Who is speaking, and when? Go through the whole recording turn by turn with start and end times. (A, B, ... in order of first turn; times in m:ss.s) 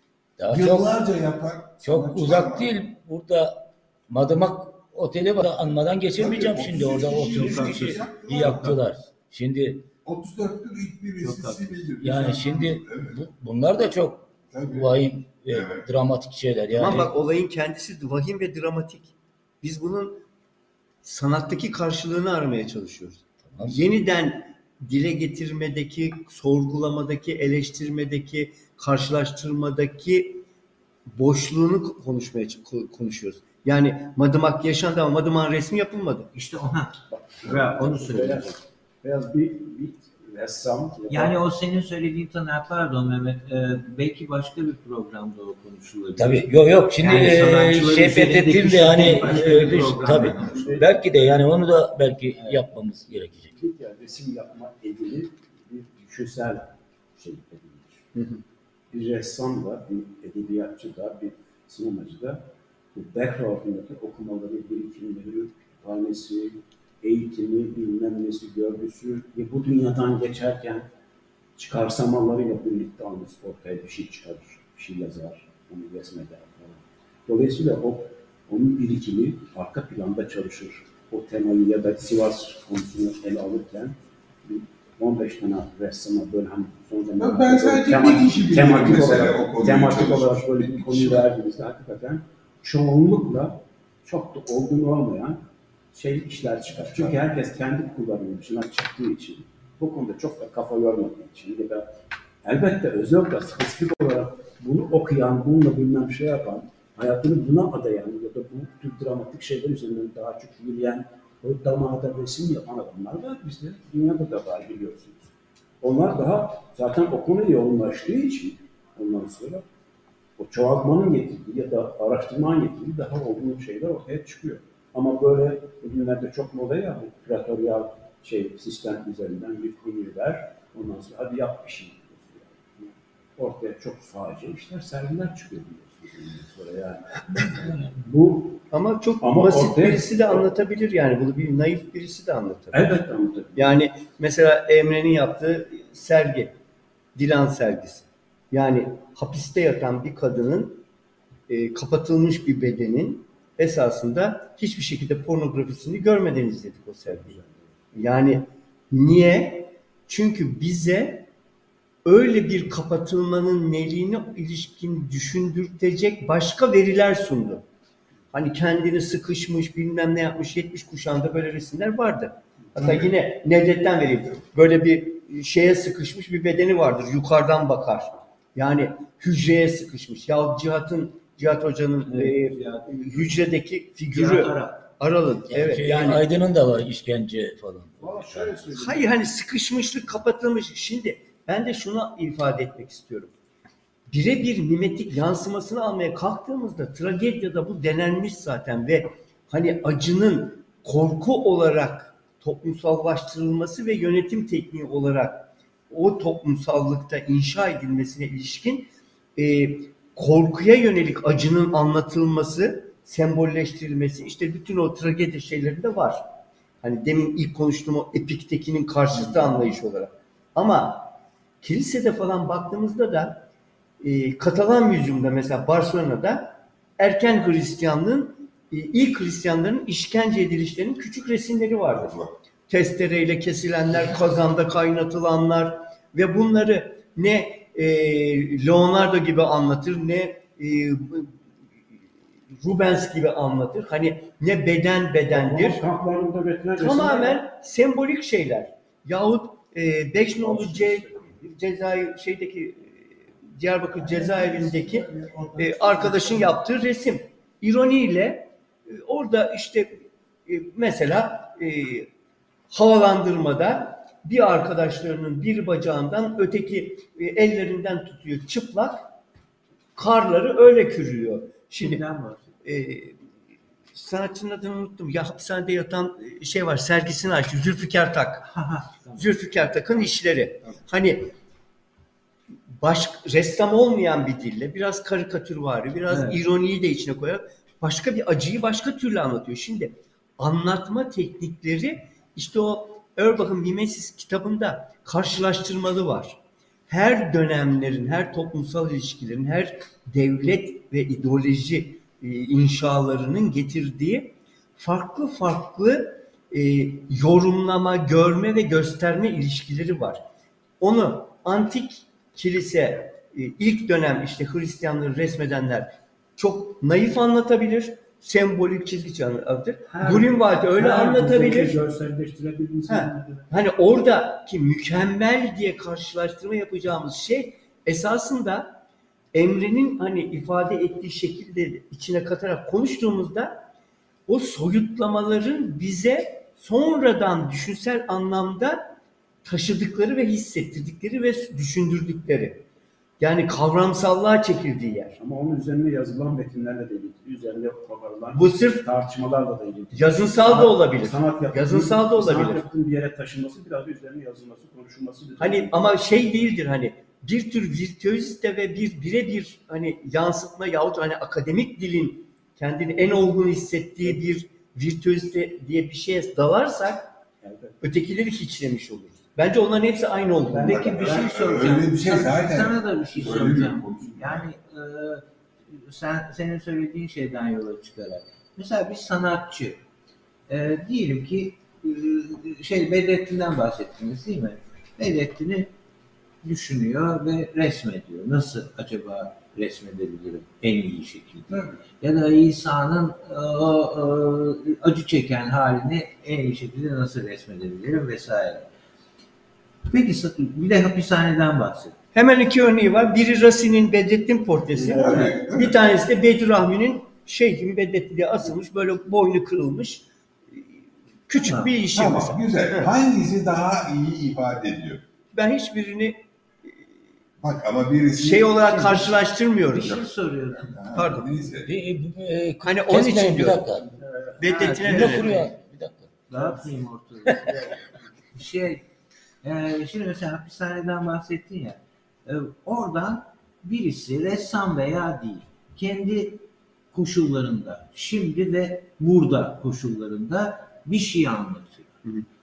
0:00.4-0:01.0 A
0:00.5-0:02.7 B
0:01.8-0:09.9 A
0:06.2-0:08.8 B
0:07.1-0:08.5 C
0:10.0-0:13.3 B
0:11.2-0:11.9 C
0:12.0-0:17.1 A
0:14.5-0:14.9 B
0:15.5-0:15.9 B
0:16.7-0:20.2 D
0:21.0-0:30.4 D
0:23.5-0:23.8 A
0:31.1-0:36.3 D
0:36.3-0:38.5 C
0:37.1-0:41.4 E
0:41.1-0:50.6 C
0:46.2-0:53.6 A
0:50.2-0:50.9 E
0:50.3-0:50.7 B
0:53.6-0:58.0 E
0:58.9-1:10.9 E
1:11.6-1:55.3 E
1:27.2-1:31.2 B
1:36.8-1:37.2 B
1:55.8-1:59.6 E
2:00.4-2:18.6 E
2:18.7-2:23.0 D
2:19.2-2:20.5 E
2:22.7-2:23.8 E
2:23.6-2:26.5 D
2:27.2-2:30.8 D
2:31.5-2:37.4 D
2:37.1-2:37.6 E
2:37.9-2:41.3 D
2:42.0-2:47.6 D
2:48.3-3:06.2 D
2:52.7-2:53.1 B
2:54.0-2:54.4 B
3:02.0-3:03.5 C
3:04.1-3:04.8 C
3:05.5-3:08.6 A
3:08.0-3:09.1 B
3:08.1-3:08.7 E
3:08.8-3:13.3 D
3:14.1-3:36.2 D
3:36.8-3:43.4 D
3:44.0-3:52.2 D
3:51.9-3:52.3 B
3:52.7-4:01.4 D
4:02.5-4:05.8 D
4:05.3-4:07.4 E
4:06.8-4:22.1 D
4:10.4-4:11.3 B
4:10.5-4:11.1 E
4:13.9-4:16.6 B
4:22.7-4:29.1 D
4:30.0-4:32.0 D
4:31.8-4:32.5 C
4:32.6-4:33.2 D
4:33.9-4:38.5 D
4:38.4-4:40.1 C
4:39.2-4:41.3 D
4:42.8-4:56.4 D
4:46.1-4:46.4 C
4:56.9-5:10.2 D
5:10.8-5:21.8 D
5:19.9-5:23.5 E
5:22.9-5:28.8 D
5:29.3-5:33.6 D
5:34.3-5:38.9 D
5:39.4-5:42.6 D
5:43.2-5:45.2 D
5:45.2-5:55.9 E
5:48.3-5:48.8 D
5:49.9-5:52.6 D
5:55.4-6:07.1 D
6:07.4-6:07.8 E
6:07.8-6:11.2 D
6:10.4-6:11.6 E
6:10.6-6:14.5 B
6:10.6-6:19.8 C
6:20.5-6:25.7 C
6:26.4-6:38.7 C
6:31.5-6:31.8 B
6:39.9-6:42.0 C
6:42.1-6:50.6 D
6:44.7-6:45.8 B
6:44.8-6:45.4 E
6:51.3-6:52.9 D
6:51.4-6:51.7 C
6:51.9-6:55.0 B
6:55.3-6:56.7 D
6:57.4-6:59.1 B
6:58.2-7:00.0 D
6:59.7-7:00.8 C
7:00.5-7:01.7 B
7:00.9-7:01.4 D
7:01.6-7:03.9 A
7:02.6-7:03.8 D
7:04.0-7:04.4 E
7:04.4-7:05.5 D
7:04.4-7:05.5 C
7:04.6-7:06.1 A
7:06.3-7:07.6 C
7:07.2-7:07.6 A
7:08.3-7:08.8 C
7:09.4-7:22.0 C